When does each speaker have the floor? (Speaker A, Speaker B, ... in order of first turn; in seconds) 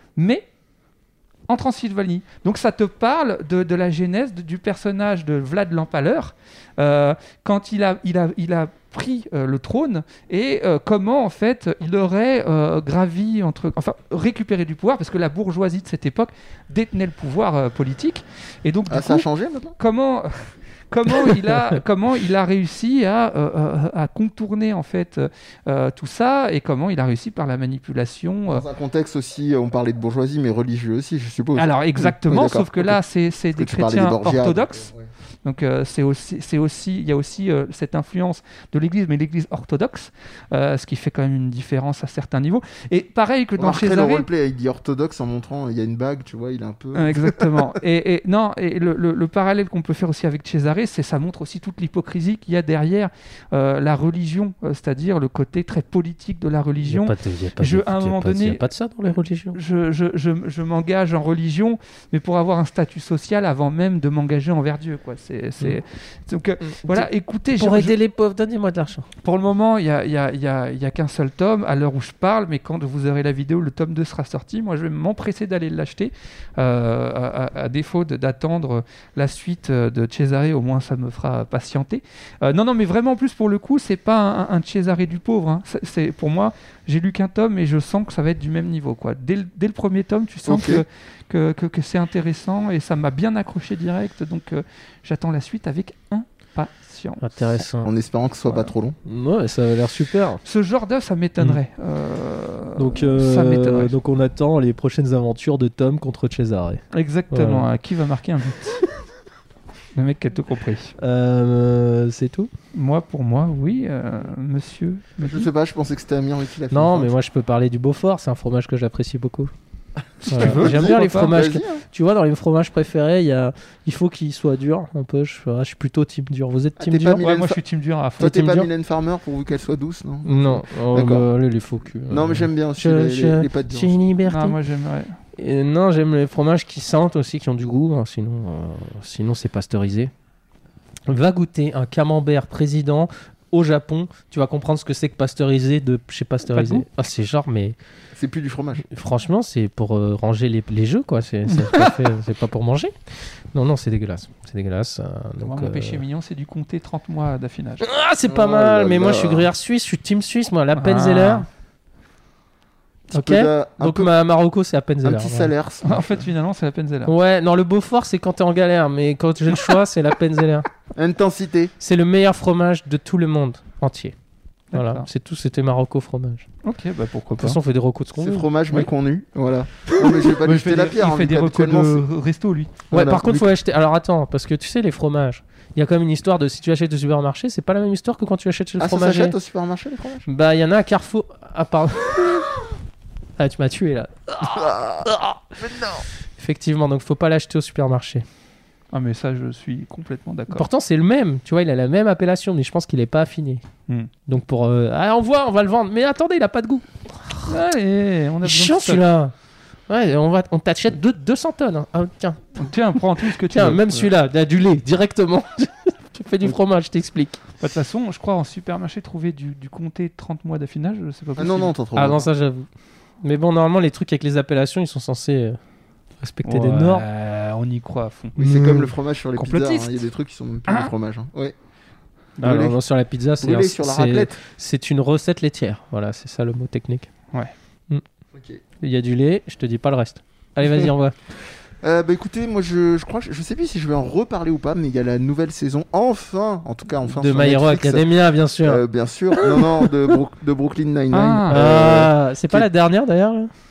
Speaker A: 0.2-0.5, 1.5-19.3, 19.8-28.6, 31.6-34.9, 35.5-44.3, 46.9-58.6, 59.5-68.0, 69.2-97.5, 98.5-98.7, 100.4-104.0, 106.9-108.8, 109.9-110.9, 112.7-115.5, 120.2-121.4, 127.2-128.4, 134.2-135.2, 146.5-146.8, 151.5-152.0, 155.4-157.8, 160.8-161.5, 165.8-167.1, 174.7-175.1, 176.6-177.6, 179.9-182.8, 198.9-200.7, 207.4-209.0, 212.6-214.1, 217.6-221.7, 226.4-228.7, 229.3-230.1, 230.7-230.9, 251.1-251.6
Speaker B: 18.9-19.8, 28.5-33.0, 33.5-35.1, 43.6-47.6, 90.5-90.8, 97.8-99.0, 115.2-117.2, 120.3-121.8, 126.8-127.6, 128.2-131.3, 132.1-134.0, 148.1-148.9, 158.2-159.5, 163.1-164.1, 165.0-166.2, 170.9-171.7, 178.2-182.0, 182.9-183.5, 188.8-190.3, 194.4-196.1, 221.4-222.3, 228.4-231.6, 232.4-232.8, 233.4-234.4, 238.3-238.6, 240.6-240.9, 241.8-248.1, 248.6-252.7
Speaker C: 56.8-59.6, 66.6-69.1, 97.2-97.9, 99.1-100.4, 102.8-107.7, 111.0-112.5, 116.7-119.5, 120.3-127.2, 128.2-128.7, 130.2-134.6, 135.3-140.1, 141.1-147.8, 148.9-152.9, 153.5-156.0, 157.8-161.5, 163.1-165.5, 167.1-170.7, 171.8-174.2, 174.7-176.5, 177.3-178.5, 182.9-189.3, 190.3-192.5, 193.4-195.4, 196.4-198.2, 200.5-203.6, 204.3-207.6, 208.4-209.3, 209.9-217.4, 221.9-222.7, 223.2-225.6, 226.2-227.1, 228.4-228.9, 232.4-237.1, 238.8-241.2, 247.1-248.8, 249.3-249.9, 251.5-253.5